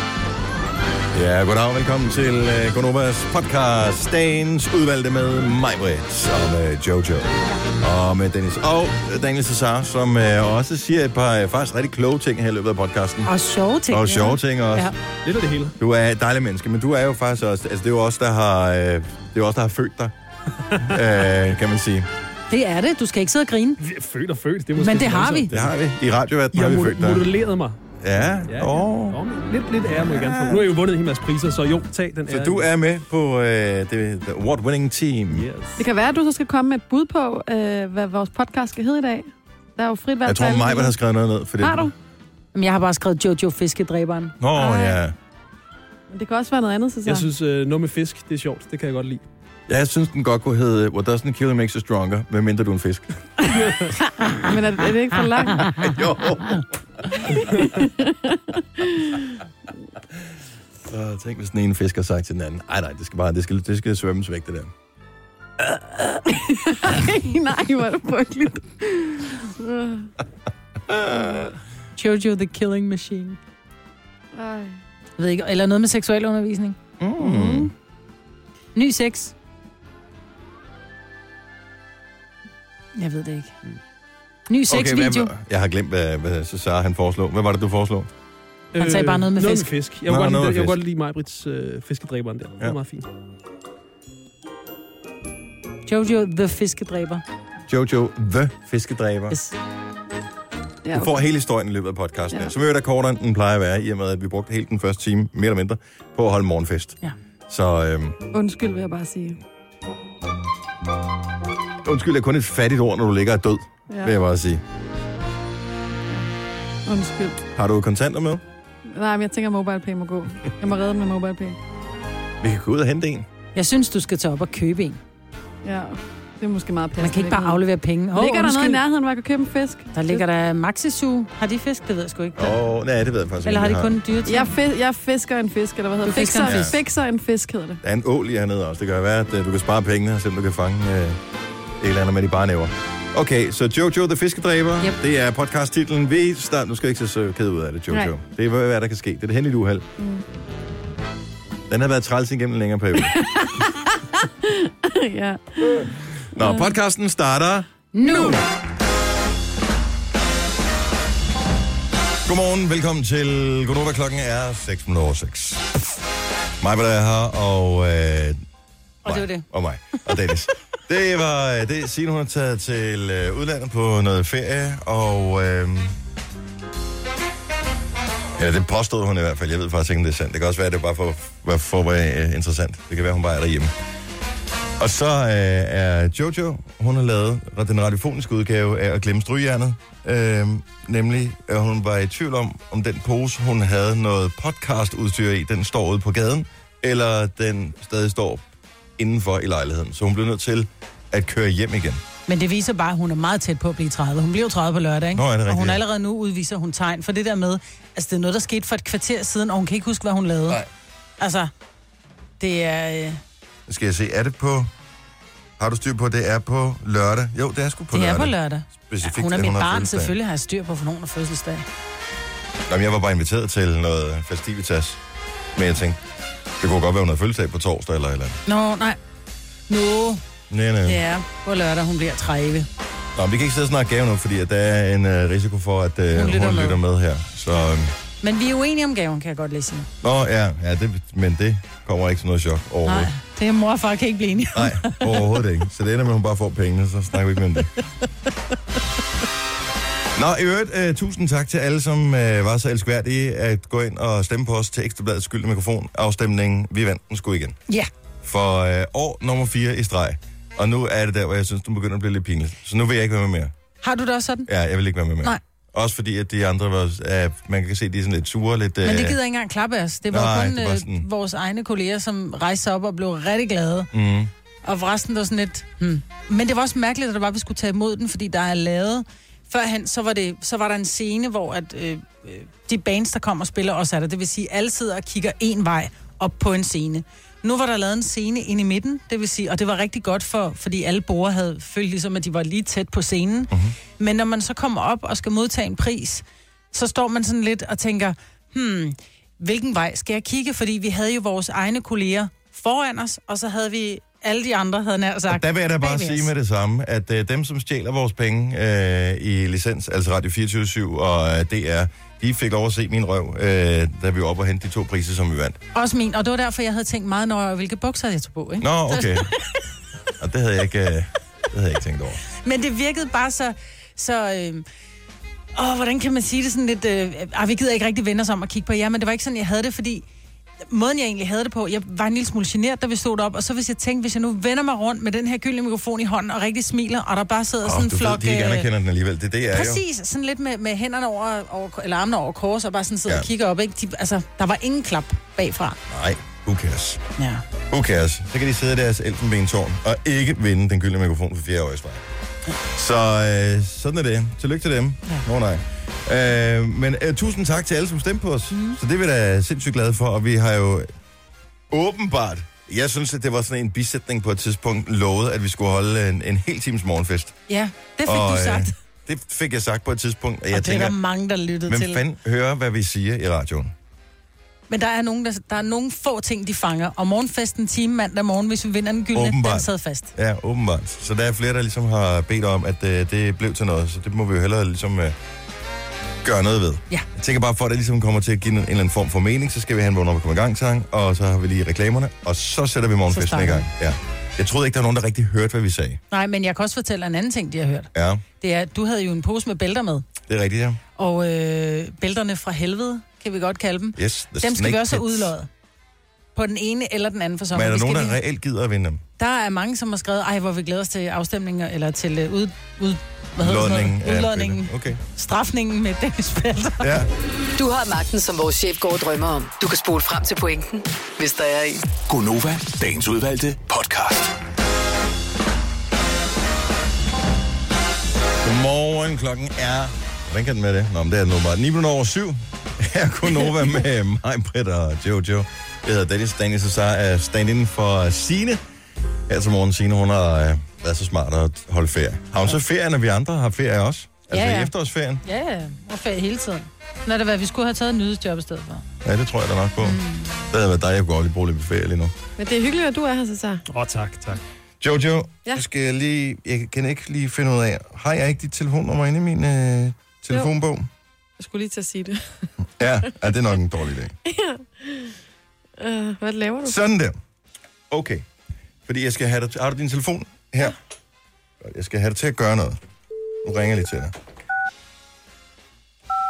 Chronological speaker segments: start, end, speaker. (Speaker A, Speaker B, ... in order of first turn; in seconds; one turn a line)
Speaker A: 1.1-13.3
Speaker B: 13.2-14.9
Speaker A: 13.9-14.9
Speaker C: 15.2-15.7
Speaker A: 15.8-20.1
Speaker A: 20.8-22.1
Speaker B: 22.5-23.8
Speaker C: 23.8-25.6
Speaker B: 24.8-25.5
Speaker A: 25.5-27.3
Speaker C: 26.5-27.8
Speaker A: 28.0-29.2
Speaker C: 28.5-32.7
Speaker A: 29.9-30.7
Speaker A: 32.3-35.5
Speaker C: 35.3-35.8
Speaker D: 35.8-41.0
Speaker A: 40.2-41.9
Speaker D: 41.6-41.9
Speaker B: 42.5-44.4
Speaker A: 44.4-45.1
Speaker D: 44.5-45.0
Speaker D: 46.1-47.3
Speaker C: 47.0-49.2
Speaker A: 49.7-53.1
Speaker D: 53.5-56.0
Speaker A: 55.7-56.6
Speaker D: 57.4-59.3
Speaker A: 60.9-64.7
Speaker D: 66.2-70.1
Speaker A: 70.9-71.6
Speaker B: 72.0-73.4
Speaker D: 74.3-74.8
Speaker B: 75.2-76.8
Speaker A: 77.0-77.7
Speaker D: 77.2-77.7
Speaker B: 78.7-79.3
Speaker B: 83.0-83.5
Speaker B: 84.5-85.3
Speaker A: 84.7-88.1
Speaker C: 88.7-93.0
Speaker B: 88.8-89.7
Speaker A: 90.1-90.8
Speaker B: 95.8-97.2
Speaker A: 97.7-99.4
Speaker B: 99.3-99.5
Speaker D: 100.8-101.2
Speaker A: 100.9-108.2
Speaker D: 108.3-109.4
Speaker A: 111.8-114.6
Speaker D: 116.8-117.4
Speaker A: 117.5-118.4
Speaker D: 118.9-121.6
Speaker A: 122.4-123.2
Speaker B: 123.5-125.0
Speaker D: 125.6-127.6
Speaker B: 127.0-128.8
Speaker D: 128.1-130.2
Speaker B: 129.9-132.6
Speaker A: 132.4-134.0
Speaker B: 133.4-134.5
Speaker D: 134.2-137.8
Speaker B: 136.0-136.7
Speaker A: 136.4-136.7
Speaker A: 137.8-141.2
Speaker A: 141.8-149.8
Speaker D: 150.0-150.2
Speaker A: 151.7-153.2
Speaker D: 153.1-153.6
Speaker D: 154.2-156.7
Speaker A: 156.3-158.4
Speaker B: 157.9-158.4
Speaker A: 162.2-165.7
Speaker A: 166.6-168.4
Speaker B: 169.0-169.5
Speaker A: 169.0-176.0
Speaker A: 178.3-183.7
Speaker A: 184.8-198.4
Speaker A: 199.0-202.0
Speaker B: 202.3-210.6
Speaker A: 205.1-205.8
Speaker B: 211.2-211.5
Speaker B: 212.4-213.2
Speaker A: 213.7-214.7
Speaker A: 215.6-220.2
Speaker B: 217.9-221.6
Speaker A: 222.7-225.0
Speaker A: 225.5-226.0
Speaker A: 226.6-228.4
Speaker B: 228.4-229.0
Speaker B: 229.7-230.2
Speaker A: 230.5-231.0
Speaker B: 230.8-232.7
Speaker A: 233.2-237.9
Speaker B: 236.1-236.8
Speaker B: 238.2-239.9
Speaker A: 240.0-243.1
Speaker B: 242.8-245.2
Speaker A: 244.5-247.7
Speaker A: 250.1-257.6
Speaker A: 258.2-263.5
Speaker B: 263.8-264.5
Speaker A: 264.5-269.2
Speaker B: 268.8-273.9
Speaker A: 270.1-271.1
Speaker A: 273.9-274.3
Speaker B: 274.6-306.3
Speaker A: 305.3-315.6
Speaker B: 315.7-319.3
Speaker A: 318.6-319.3
Speaker A: 320.2-322.2
Speaker B: 322.4-324.6
Speaker B: 325.5-330.0
Speaker B: 330.7-338.7
Speaker A: 337.6-339.8
Speaker B: 339.5-345.8
Speaker A: 345.9-347.0
Speaker B: 347.2-347.4
Speaker A: 347.7-352.0
Speaker A: 352.7-360.9
Speaker B: 358.5-358.8
Speaker A: 361.7-367.4
Speaker B: 367.5-368.7
Speaker A: 368.0-371.0
Speaker B: 370.5-372.0
Speaker A: 371.7-373.7
Speaker B: 374.7-380.1
Speaker A: 379.1-385.1
Speaker A: 386.2-396.0
Speaker B: 393.1-393.7
Speaker B: 396.1-397.9
Speaker A: 397.9-398.2
Speaker B: 398.4-400.1
Speaker A: 400.3-400.8
Speaker B: 401.0-405.5
Speaker A: 403.9-405.3
Speaker B: 406.3-408.2
Speaker A: 407.5-409.0
Speaker B: 409.2-416.9
Speaker A: 413.4-415.0
Speaker A: 416.8-417.1
Speaker E: 417.6-421.9
Speaker F: 422.1-424.3
Speaker A: 428.4-438.6
Speaker A: 439.3-445.2
Speaker B: 444.3-444.7
Speaker B: 445.2-448.8
Speaker A: 449.0-452.1
Speaker B: 449.8-450.4
Speaker D: 452.4-453.6
Speaker C: 453.7-454.4
Speaker A: 454.8-460.9
Speaker D: 461.4-462.2
Speaker A: 462.8-464.1
Speaker D: 464.2-465.1
Speaker D: 465.8-466.8
Speaker A: 466.6-467.2
Speaker A: 467.9-468.2
Speaker A: 468.9-470.8
Speaker A: 471.6-472.8
Speaker A: 473.4-474.1